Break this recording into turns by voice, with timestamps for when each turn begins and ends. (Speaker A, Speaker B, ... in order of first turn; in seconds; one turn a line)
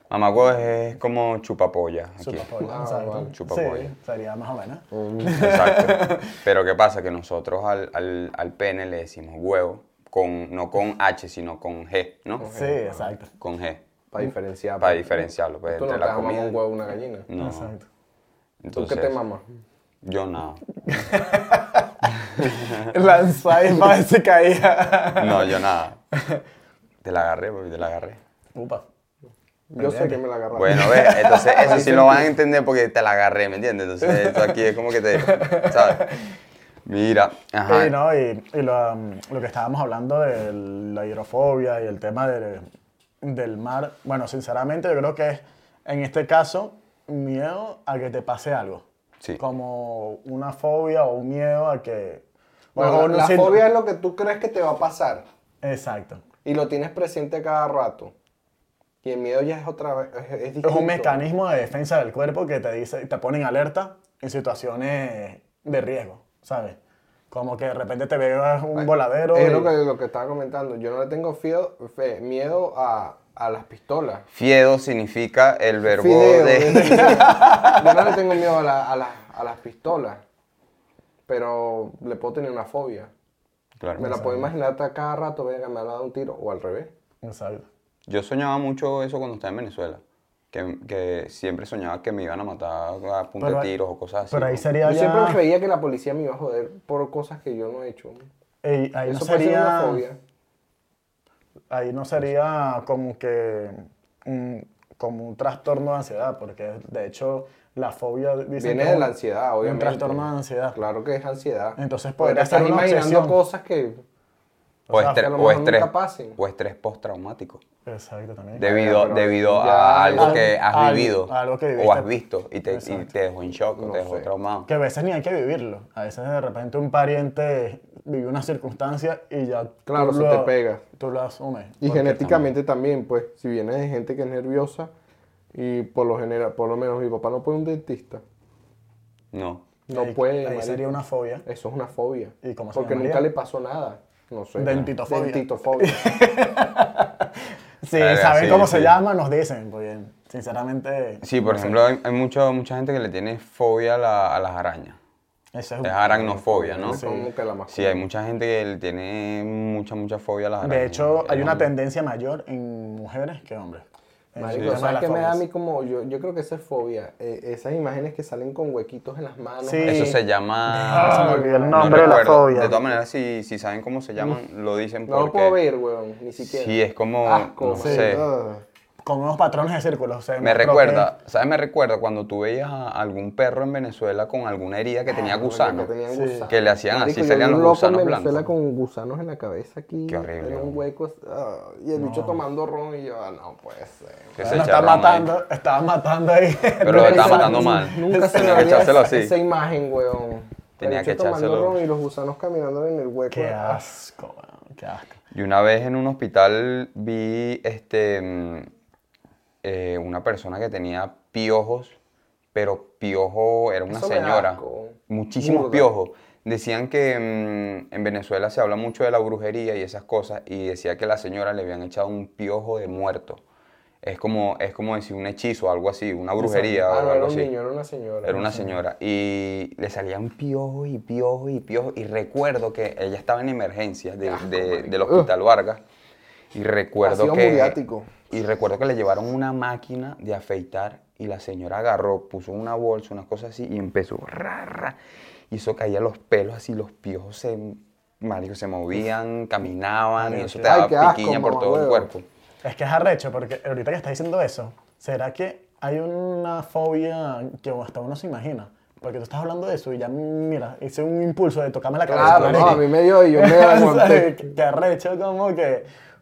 Speaker A: 0.1-2.5
Speaker B: 2.2-6.4
Speaker C: 2.6-3.3
Speaker A: 3.3-3.9
Speaker C: 4.9-5.4
Speaker A: 5.3-12.5
Speaker C: 12.4-13.1
Speaker B: 12.4-13.3
Speaker A: 13.4-13.8
Speaker C: 14.1-17.3
Speaker A: 14.8-16.6
Speaker A: 17.3-17.7
Speaker B: 17.4-17.9
Speaker A: 18.6-19.2
Speaker C: 18.7-19.5
Speaker A: 20.0-20.6
Speaker B: 20.9-25.6
Speaker A: 22.4-22.9
Speaker A: 25.2-26.0
Speaker B: 26.1-26.4
Speaker A: 27.0-28.2
Speaker B: 28.6-28.8
Speaker C: 29.7-32.3
Speaker B: 29.8-32.2
Speaker A: 30.6-36.2
Speaker B: 34.0-36.2
Speaker A: 36.9-38.0
Speaker B: 37.7-42.7
Speaker B: 43.2-48.9
Speaker B: 49.4-52.2
Speaker B: 52.8-53.6
Speaker C: 52.8-55.2
Speaker B: 55.6-56.2
Speaker C: 56.5-58.1
Speaker C: 59.0-61.2
Speaker B: 60.6-66.8
Speaker B: 67.3-69.7
Speaker C: 68.8-74.2
Speaker A: 74.3-77.1
Speaker C: 75.9-80.2
Speaker B: 77.1-78.1
Speaker C: 81.3-83.1
Speaker A: 83.8-84.1
Speaker B: 84.0-84.5
Speaker C: 84.0-86.9
Speaker B: 87.2-87.7
Speaker A: 88.1-94.7
Speaker B: 93.4-93.7
Speaker B: 94.3-95.4
Speaker C: 94.8-98.3
Speaker B: 98.6-100.0
Speaker C: 99.1-100.2
Speaker B: 101.7-110.8
Speaker C: 108.6-114.0
Speaker B: 111.8-113.4
Speaker B: 114.9-115.3
Speaker A: 114.9-117.6
Speaker C: 115.0-116.4
Speaker B: 117.8-118.8
Speaker C: 118.6-120.5
Speaker A: 118.6-124.7
Speaker B: 120.1-122.1
Speaker B: 122.7-123.1
Speaker C: 123.8-124.3
Speaker B: 124.7-131.9
Speaker C: 129.9-130.8
Speaker C: 131.8-134.9
Speaker A: 131.9-132.5
Speaker C: 135.5-138.2
Speaker A: 139.3-139.7
Speaker C: 139.9-140.8
Speaker B: 139.9-141.4
Speaker C: 141.5-146.1
Speaker B: 142.4-143.3
Speaker B: 144.6-151.8
Speaker A: 148.0-149.0
Speaker A: 151.2-155.0
Speaker B: 155.5-157.3
Speaker A: 155.8-157.0
Speaker C: 156.5-158.1
Speaker A: 157.7-161.7
Speaker B: 160.6-165.4
Speaker C: 164.4-170.2
Speaker A: 164.5-164.8
Speaker B: 169.6-172.8
Speaker A: 169.8-175.6
Speaker C: 171.0-172.4
Speaker C: 175.1-178.7
Speaker A: 176.4-178.2
Speaker B: 177.8-178.2
Speaker B: 179.0-181.1
Speaker A: 180.4-185.9
Speaker C: 185.1-194.4
Speaker B: 186.1-186.5
Speaker A: 186.5-188.5
Speaker A: 190.1-190.8
Speaker B: 192.0-192.4
Speaker A: 194.4-195.3
Speaker B: 194.4-199.0
Speaker A: 196.8-199.3
Speaker C: 196.9-203.8
Speaker A: 200.8-201.8
Speaker B: 203.3-205.2
Speaker A: 205.3-208.7
Speaker A: 209.6-212.0
Speaker A: 212.6-223.4
Speaker C: 213.9-215.9
Speaker A: 224.0-227.5
Speaker C: 226.4-228.7
Speaker A: 228.2-235.8
Speaker C: 234.2-235.3
Speaker A: 236.5-237.8
Speaker C: 237.0-238.1
Speaker A: 238.3-245.0
Speaker A: 245.5-252.2
Speaker B: 250.2-250.8
Speaker C: 250.7-252.1
Speaker B: 252.6-265.9
Speaker C: 262.1-264.5
Speaker A: 262.2-262.9